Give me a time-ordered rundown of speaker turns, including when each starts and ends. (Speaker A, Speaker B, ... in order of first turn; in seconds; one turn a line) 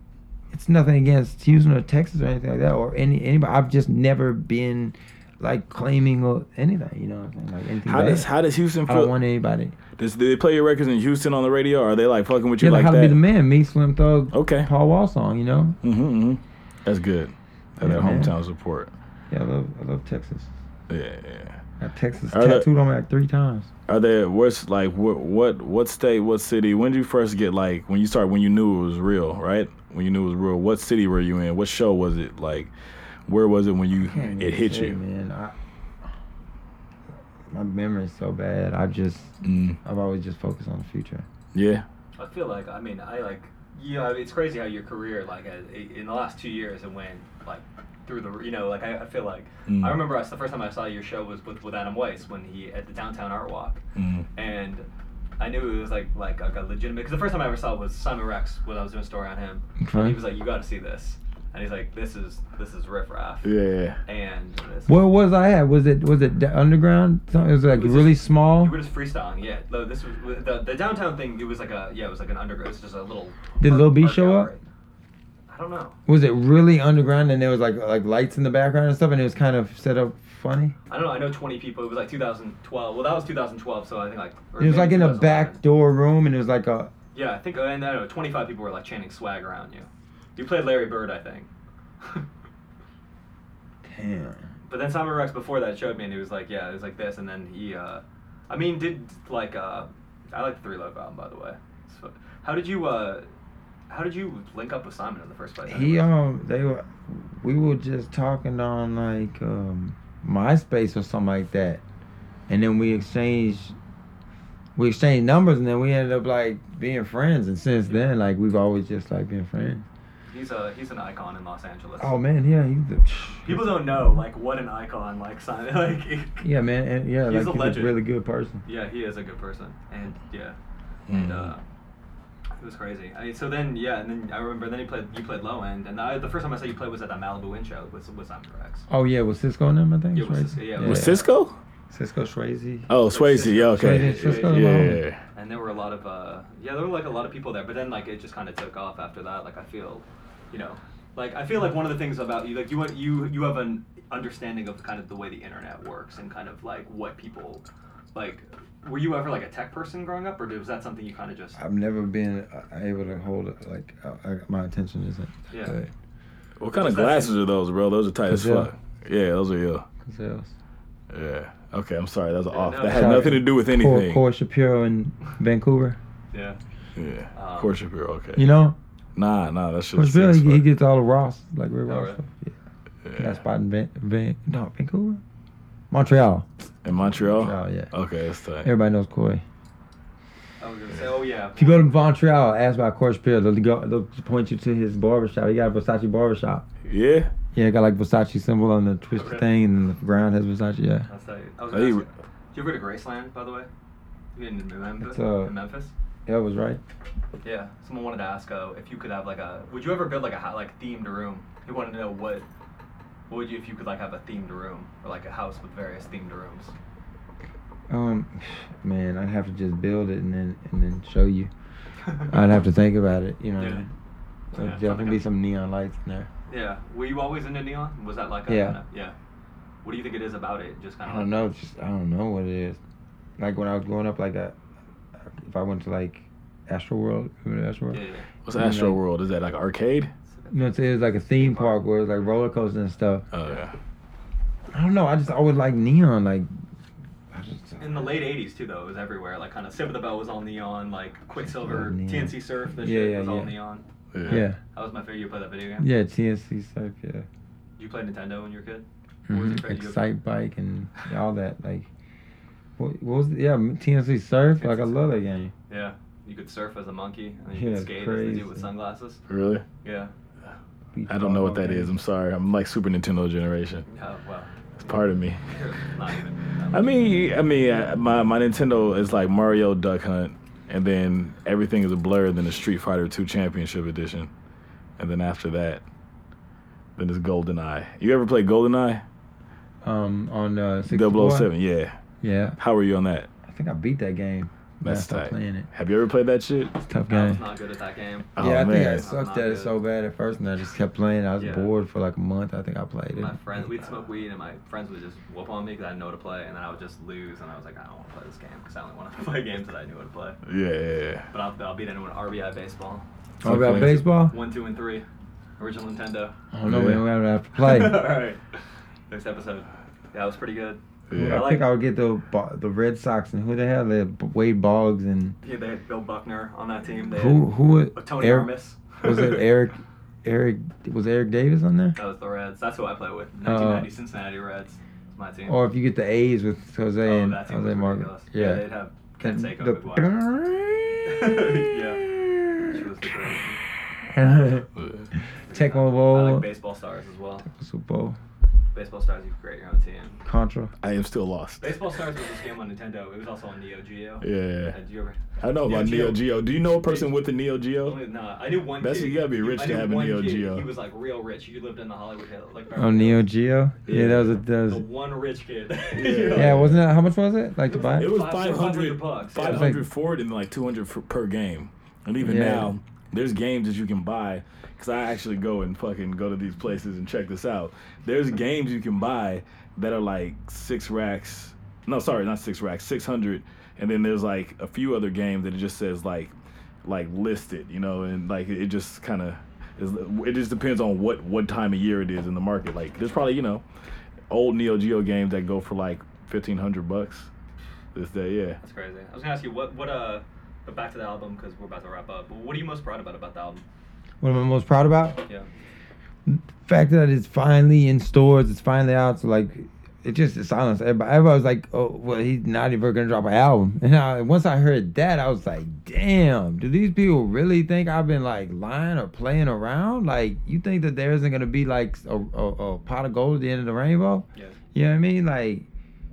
Speaker A: 0.5-8.3
Speaker B: 7.8-9.2
Speaker A: 8.9-9.8
Speaker B: 10.0-13.2
Speaker A: 12.6-15.8
Speaker B: 14.3-14.7
Speaker B: 15.8-18.9
Speaker A: 17.8-18.4
Speaker A: 19.3-20.5
Speaker B: 20.9-21.6
Speaker A: 21.8-23.7
Speaker B: 22.3-22.7
Speaker B: 23.9-32.7
Speaker B: 33.3-35.0
Speaker A: 34.0-35.5
Speaker A: 37.5-41.3
Speaker B: 39.4-39.8
Speaker B: 41.5-41.9
Speaker C: 42.2-53.8
Speaker B: 49.7-50.0
Speaker B: 53.9-54.3
Speaker C: 54.4-54.9
Speaker C: 55.4-63.5
Speaker A: 59.8-60.2
Speaker B: 63.4-64.0
Speaker C: 64.0-64.9
Speaker A: 64.9-68.7
Speaker C: 67.7-74.6
Speaker A: 73.6-74.5
Speaker C: 75.5-76.0
Speaker A: 76.1-80.8
Speaker C: 80.9-85.6
Speaker A: 84.6-86.9
Speaker C: 87.1-91.5
Speaker A: 93.9-94.5
Speaker C: 94.7-103.3
Speaker C: 103.9-106.1
Speaker A: 105.7-111.8
Speaker A: 112.5-113.8
Speaker A: 114.8-119.9
Speaker C: 120.3-122.2
Speaker A: 122.0-124.0
Speaker C: 123.4-126.5
Speaker A: 126.4-128.6
Speaker C: 127.3-128.0
Speaker C: 128.7-130.6
Speaker B: 131.1-131.5
Speaker C: 131.1-131.6
Speaker C: 132.6-138.9
Speaker A: 138.9-141.2
Speaker C: 140.1-141.3
Speaker B: 140.8-141.6
Speaker A: 141.9-142.9
Speaker B: 142.9-145.2
Speaker C: 143.1-161.6
Speaker A: 143.7-145.0
Speaker A: 161.6-165.9
Speaker C: 165.5-165.8
Speaker B: 166.6-169.9
Speaker C: 166.7-167.4
Speaker A: 168.3-168.7
Speaker A: 170.0-170.5
Speaker B: 171.1-174.2
Speaker C: 172.5-173.3
Speaker A: 172.9-176.0
Speaker C: 176.3-176.6
Speaker B: 176.9-178.5
Speaker C: 177.3-177.8
Speaker A: 178.3-178.8
Speaker B: 179.2-180.7
Speaker A: 179.9-182.6
Speaker C: 181.9-182.2
Speaker B: 183.1-183.4
Speaker A: 183.2-185.2
Speaker A: 185.9-187.9
Speaker B: 186.8-188.7
Speaker A: 188.6-189.4
Speaker C: 190.6-191.9
Speaker A: 191.6-196.7
Speaker B: 196.8-197.3
Speaker A: 197.5-201.1
Speaker C: 199.2-199.5
Speaker C: 201.1-203.7
Speaker B: 201.7-202.1
Speaker C: 204.3-205.9
Speaker A: 205.0-205.5
Speaker A: 206.3-206.8
Speaker C: 207.4-212.4
Speaker C: 213.3-216.7
Speaker A: 217.9-221.5
Speaker C: 222.0-222.4
Speaker A: 222.2-223.9
Speaker C: 223.6-223.9
Speaker C: 224.5-225.2
Speaker A: 224.5-226.3
Speaker C: 226.5-229.2
Speaker A: 228.5-228.8
Speaker C: 229.8-231.5
Speaker A: 231.0-232.8
Speaker A: 233.4-234.6
Speaker A: 235.2-239.0
Speaker C: 237.9-238.3
Speaker B: 238.4-240.1
Speaker C: 240.3-241.8
Speaker A: 240.5-243.3
Speaker B: 243.3-243.8
Speaker A: 244.7-246.5
Speaker A: 247.3-248.2
Speaker C: 247.8-255.9
Speaker A: 251.4-253.6
Speaker B: 254.1-254.4
Speaker A: 254.3-254.6
Speaker A: 255.8-257.3
Speaker C: 257.8-260.0
Speaker A: 259.3-261.9
Speaker A: 262.8-265.5
Speaker C: 264.6-265.0
Speaker C: 265.7-269.2
Speaker A: 267.5-268.7
Speaker B: 269.3-269.6
Speaker C: 269.8-270.1
Speaker A: 270.9-271.9
Speaker B: 271.1-273.9
Speaker C: 273.9-277.2
Speaker B: 274.8-275.4
Speaker B: 276.7-284.3
Speaker B: 285.0-285.8
Speaker B: 287.0-289.1
Speaker A: 289.8-291.5
Speaker B: 290.9-292.0
Speaker A: 292.2-292.6
Speaker B: 292.6-293.3
Speaker A: 293.4-295.7
Speaker B: 294.8-296.8
Speaker A: 296.8-297.4
Speaker C: 297.1-299.8
Speaker B: 298.4-299.1
Speaker A: 298.4-303.7
Speaker C: 301.4-301.7
Speaker C: 303.1-310.4
Speaker B: 310.4-311.3
Speaker C: 311.3-315.1
Speaker B: 313.4-314.0
Speaker A: 313.4-314.4
Speaker C: 315.6-316.4
Speaker A: 316.5-318.1
Speaker B: 316.6-317.0
Speaker C: 317.6-321.7
Speaker B: 321.1-321.5
Speaker A: 321.1-325.4
Speaker C: 325.4-329.4
Speaker A: 327.1-328.5
Speaker A: 329.0-332.0
Speaker C: 331.9-335.6
Speaker A: 333.4-333.9
Speaker A: 335.5-338.7
Speaker C: 337.0-340.1
Speaker A: 339.2-343.1
Speaker C: 341.1-342.1
Speaker C: 342.7-343.6
Speaker A: 344.0-344.7
Speaker B: 344.8-345.1
Speaker C: 345.5-347.5
Speaker A: 345.5-346.5
Speaker A: 347.5-348.2
Speaker C: 348.7-350.2
Speaker A: 350.2-350.7
Speaker B: 350.8-351.8
Speaker C: 351.6-357.1
Speaker B: 354.2-354.8
Speaker B: 355.4-358.0
Speaker C: 357.8-363.3
Speaker B: 358.8-360.7
Speaker A: 362.8-364.9
Speaker B: 363.9-364.4
Speaker C: 364.7-366.6
Speaker B: 365.9-366.9
Speaker A: 366.3-368.1
Speaker C: 367.7-369.7
Speaker B: 367.9-386.3
Speaker A: 369.4-369.8
Speaker A: 372.2-372.7
Speaker B: 386.8-393.6
Speaker B: 394.3-397.3
Speaker B: 397.9-398.6
Speaker C: 398.6-403.6
Speaker A: 404.2-405.2
Speaker A: 406.3-425.7
Speaker C: 424.3-424.6